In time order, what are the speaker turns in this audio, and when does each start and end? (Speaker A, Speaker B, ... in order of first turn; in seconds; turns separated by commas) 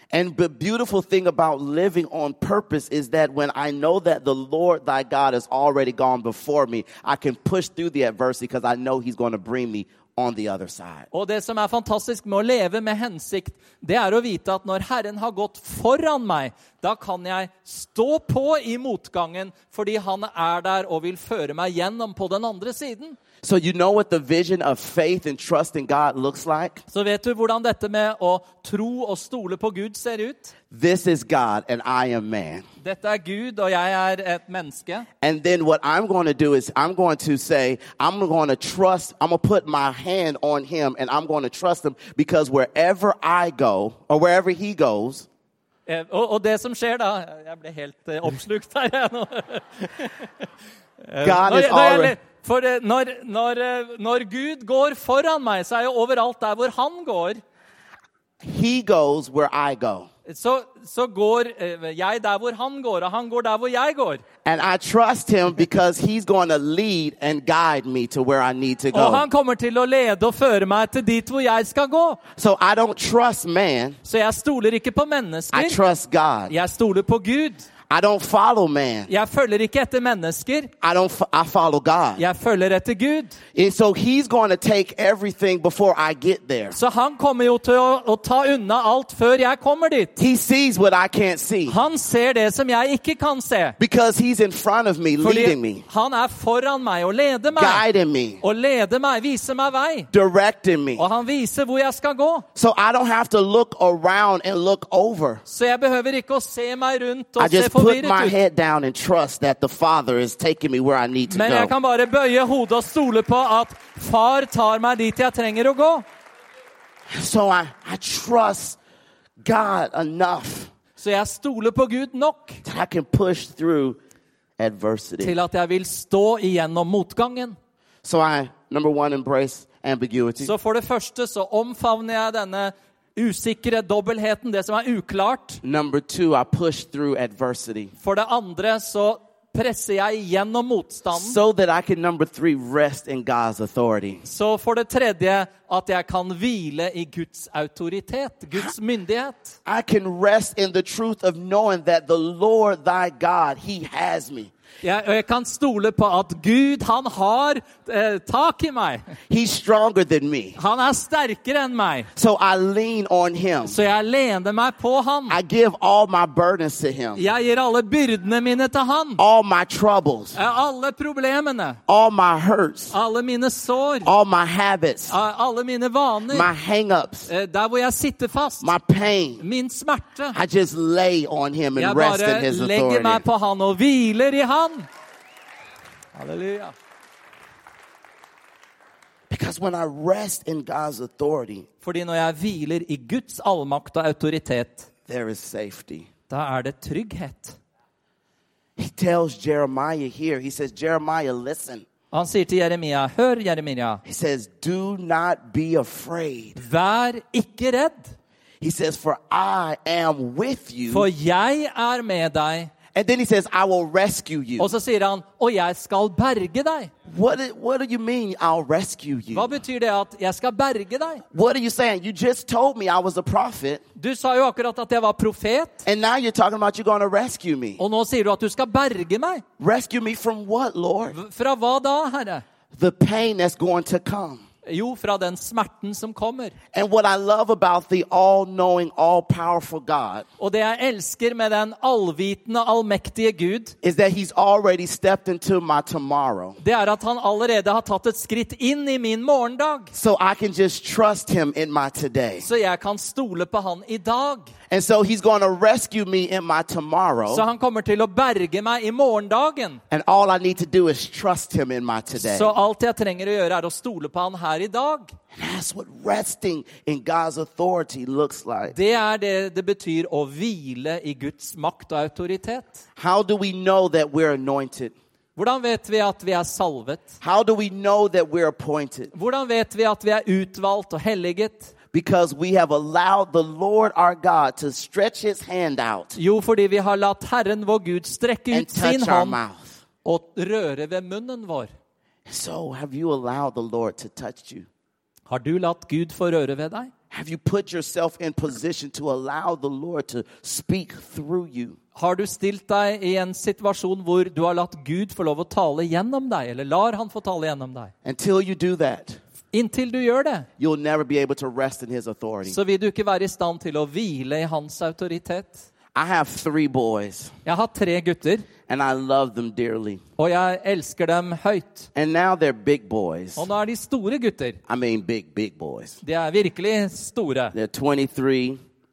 Speaker A: 0.1-11.1, Speaker B: 11.1-23.2, Speaker A: 23.4-26.8, Speaker B: 26.9-30.5, Speaker A: 30.7-32.6, Speaker B: 32.8-35.1, Speaker A: 35.2-45.3, Speaker B: 45.9-50.3, Speaker B: 51.1-57.4, Speaker A: 51.2-52.2, Speaker A: 58.4-60.1, Speaker B: 60.2-64.2, Speaker A: 64.4-69.3, Speaker B: 68.9-72.2, Speaker A: 72.3-74.0, Speaker B: 74.0-75.8, Speaker A: 75.5-76.5, Speaker B: 76.5-77.7, Speaker A: 77.9-79.1, Speaker B: 79.1-80.7, Speaker A: 80.8-82.2, Speaker B: 82.2-83.4, Speaker A: 83.5-86.8, Speaker B: 86.7-90.2, Speaker A: 90.2-91.8, Speaker B: 91.7-93.8, Speaker A: 93.8-95.8, Speaker B: 95.2-97.8, Speaker A: 97.5-98.4, Speaker B: 98.4-100.1, Speaker A: 100.1-101.0, Speaker B: 101.0-102.5, Speaker A: 102.5-105.4, Speaker B: 105.5-108.3, Speaker A: 107.4-111.7, Speaker B: 111.3-116.0, Speaker A: 117.1-118.8, Speaker A: 119.4-120.7, Speaker B: 121.0-122.6, Speaker A: 122.6-124.0, Speaker A: 124.6-125.3, Speaker B: 125.2-127.6, Speaker A: 128.0-130.5, Speaker B: 130.4-135.6, Speaker A: 135.6-137.9, Speaker B: 138.0-141.4, Speaker A: 141.1-144.2, Speaker B: 144.2-149.5, Speaker A: 149.7-154.5, Speaker B: 154.8-159.1, Speaker A: 159.3-160.6, Speaker B: 160.6-162.1, Speaker A: 162.2-163.8, Speaker B: 163.6-165.4, Speaker A: 165.3-167.2, Speaker B: 167.2-169.2, Speaker A: 169.2-170.4, Speaker B: 170.3-171.8, Speaker A: 171.9-172.9, Speaker B: 172.9-174.1, Speaker A: 174.0-175.2, Speaker B: 175.1-176.5, Speaker A: 176.3-177.3, Speaker B: 177.3-178.7, Speaker A: 178.6-179.4, Speaker B: 179.4-180.4, Speaker A: 180.3-183.2, Speaker B: 181.8-184.9, Speaker B: 186.1-186.7, Speaker A: 189.3-191.7, Speaker B: 191.8-194.9, Speaker A: 195.1-196.1, Speaker B: 196.3-197.6, Speaker A: 198.8-201.8, Speaker B: 202.1-204.0, Speaker A: 204.0-206.6, Speaker B: 206.6-208.1, Speaker A: 208.6-211.1, Speaker B: 210.9-212.7, Speaker A: 212.9-214.7, Speaker B: 214.6-216.9, Speaker A: 217.1-219.6, Speaker B: 219.3-221.2, Speaker A: 221.3-223.8, Speaker B: 224.0-225.8, Speaker A: 225.8-227.8, Speaker B: 227.8-229.4, Speaker A: 229.6-231.2, Speaker B: 231.1-232.4, Speaker A: 232.7-234.4, Speaker B: 234.7-236.5, Speaker A: 236.7-240.2, Speaker B: 240.4-243.7, Speaker A: 243.8-246.6, Speaker B: 246.6-249.9, Speaker A: 249.9-252.4, Speaker B: 252.4-254.5, Speaker A: 254.7-257.4, Speaker B: 257.3-259.8, Speaker A: 259.9-262.5, Speaker B: 262.1-265.1, Speaker A: 265.3-268.7, Speaker B: 268.7-272.8, Speaker A: 273.0-274.9, Speaker B: 275.4-277.1, Speaker A: 277.2-279.1, Speaker B: 279.1-281.7, Speaker A: 281.9-286.2, Speaker B: 286.1-289.4, Speaker A: 288.5-289.8, Speaker B: 290.0-291.7, Speaker A: 292.2-294.7, Speaker B: 295.3-296.9, Speaker A: 297.1-301.8, Speaker B: 301.9-307.9, Speaker A: 308.0-309.2, Speaker B: 309.5-310.5, Speaker A: 310.6-312.6, Speaker B: 312.4-315.6, Speaker A: 315.9-317.3, Speaker B: 317.4-318.5, Speaker A: 318.7-320.0, Speaker B: 320.2-321.9, Speaker A: 321.9-323.5, Speaker B: 323.4-324.6, Speaker A: 324.7-326.0, Speaker B: 326.0-327.5, Speaker A: 327.5-328.6